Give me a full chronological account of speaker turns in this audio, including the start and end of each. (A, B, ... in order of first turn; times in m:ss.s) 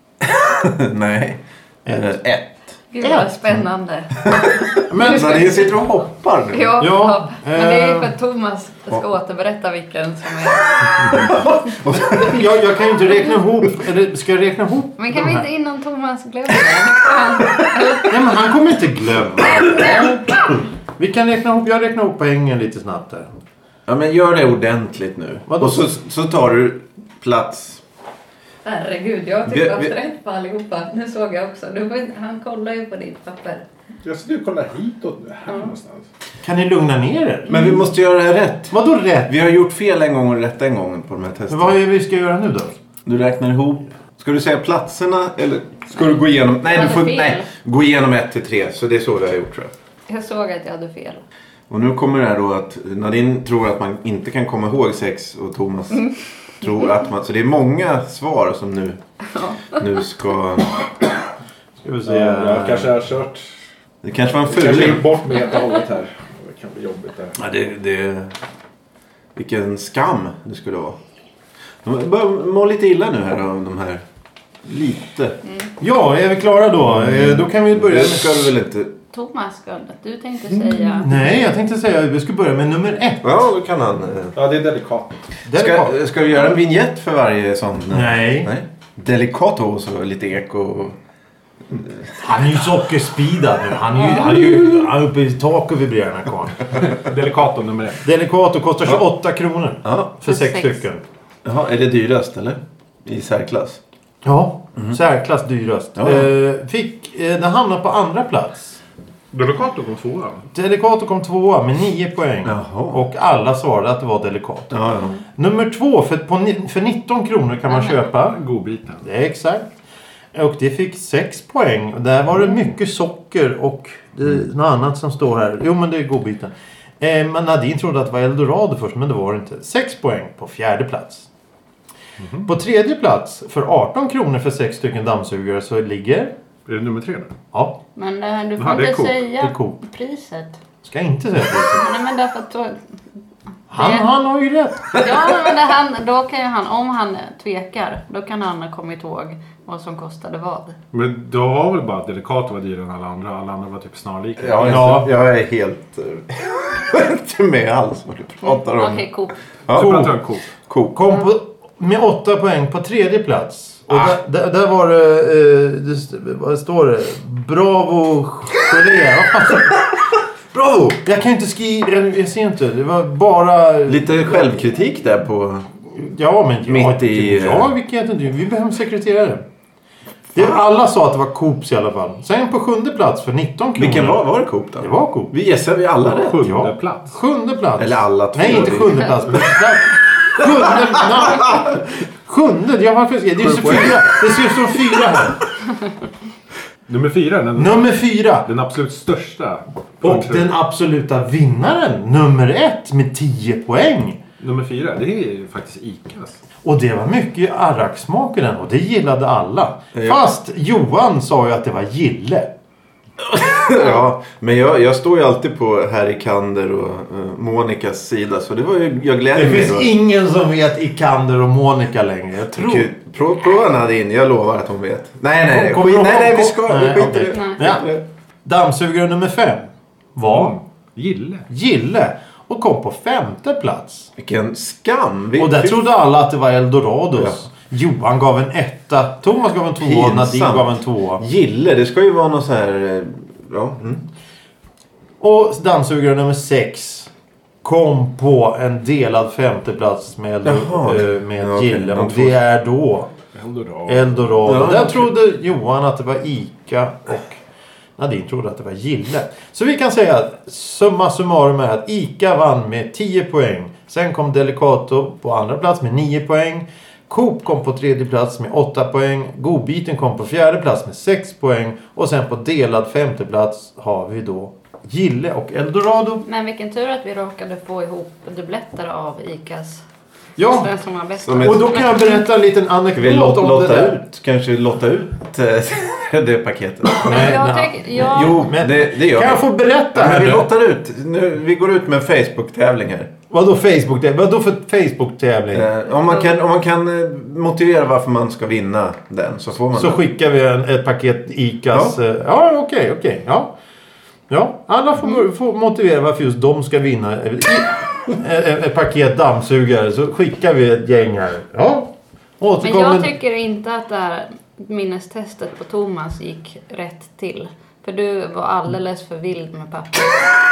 0:00.2-0:02.7 A
0:01.9-0:02.1 B
0:02.9-0:05.8 C
0:03.0-0:03.3 B
0:04.2-0:06.8 A
0:04.9-0:05.6 B
0:06.5-0:11.1 C
0:06.8-0:08.1 B
0:10.8-0:12.5 A
0:11.9-0:15.5 B
0:15.0-0:18.4 C
0:18.1-0:23.3 B
0:19.6-0:20.0 C
0:23.9-0:27.8 A
0:25.5-0:25.9 B
0:28.6-0:33.6 C
0:29.5-0:29.9 A
0:34.0-0:36.1 D
0:35.5-0:35.7 C
0:36.4-0:37.6 B
0:37.5-0:38.8 A
0:37.5-0:37.8 C
0:38.7-0:39.3 B
0:39.3-0:41.8 A
0:41.5-0:42.8 B
0:43.0-0:49.7 A
0:46.6-0:47.5 C
0:50.1-0:51.2 C
0:51.7-0:59.0 A
0:59.3-0:59.8 C
0:59.7-1:00.9 A
1:01.8-1:03.0 B
1:02.1-1:03.5 D
1:04.0-1:05.2 A
1:04.4-1:07.4 D
1:07.4-1:08.3 A
1:09.4-1:11.0 A
1:11.8-1:14.0 A
1:14.6-1:15.4 A
1:15.8-1:18.5 B
1:17.0-1:19.0 A
1:19.1-1:21.1 C
1:20.6-1:23.2 B
1:23.2-1:24.4 A
1:24.4-1:25.2 D
1:25.4-1:26.0 B
1:25.5-1:31.0 A
1:27.9-1:28.5 B
1:31.7-1:32.4 A
1:32.2-1:36.8 B
1:34.0-1:34.7 A
1:36.7-1:38.0 D
1:38.0-1:41.0 B
1:39.8-1:40.1 A
1:40.3-1:40.8 C
1:41.4-1:43.8 A
1:44.2-1:48.8 B
1:46.0-1:46.3 A
1:49.3-1:50.4 D
1:50.5-1:54.8 B
1:52.4-1:53.0 A
1:54.7-1:55.2 A
1:55.4-1:58.4 B
1:58.1-1:59.1 D
1:59.0-1:59.7 B
2:00.3-2:11.3 B
2:12.2-2:12.5 D
2:12.4-2:16.3 B
2:16.6-2:17.3 D
2:18.0-2:20.6 C
2:18.6-2:19.2 D
2:19.4-2:19.8 B
2:20.8-2:21.8 B
2:21.7-2:22.8 C
2:23.7-2:25.1 B
2:23.8-2:24.0 C
2:24.9-2:30.8 C
2:30.9-2:34.9 D
2:34.4-2:39.0 A
2:34.6-2:35.1 B
2:38.4-2:39.4 C
2:39.7-2:41.0 A
2:39.7-2:40.4 D
2:39.8-2:40.2 B
2:40.9-2:49.8 B
2:50.5-2:50.8 A
2:50.8-2:54.6 B
2:53.9-2:55.6 A
2:55.9-2:59.4 B
2:56.7-2:57.7 A
3:00.4-3:04.2 B
3:03.8-3:06.5 A
3:04.8-3:05.3 B
3:06.1-3:07.2 D
3:06.3-3:15.4 B
3:07.8-3:09.4 A
3:13.4-3:14.0 D
3:16.9-3:20.5 D
3:17.6-3:18.5 B
3:20.0-3:24.2 B
3:24.4-3:26.4 D
3:26.6-3:32.5 B
3:29.9-3:30.2 A
3:33.2-3:39.9 A
3:39.3-3:42.9 B
3:42.6-3:48.0 A
3:45.4-3:47.9 B
3:47.3-3:47.6 C
3:48.4-3:50.6 B
3:50.3-3:51.5 D
3:51.5-3:54.1 B
3:54.2-3:55.8 A
3:55.4-4:01.2 B
3:59.8-4:04.0 A
4:05.2-4:07.1 B
4:07.6-4:13.1 B
4:10.4-4:12.4 A
4:13.3-4:14.8 D
4:13.9-4:17.4 B
4:14.5-4:15.1 A
4:18.0-4:36.2 B
4:36.2-4:39.8 C
4:40.4-4:40.7 B
4:40.4-4:42.2 C
4:41.2-4:41.9 A
4:41.4-4:44.0 B
4:43.0-4:53.1 A
4:47.0-4:48.5 C
4:47.0-4:50.5 B
4:53.3-4:55.7 B
4:55.5-5:00.0 A
4:59.7-5:03.5 B
5:04.3-5:13.1 B
5:12.6-5:20.4 C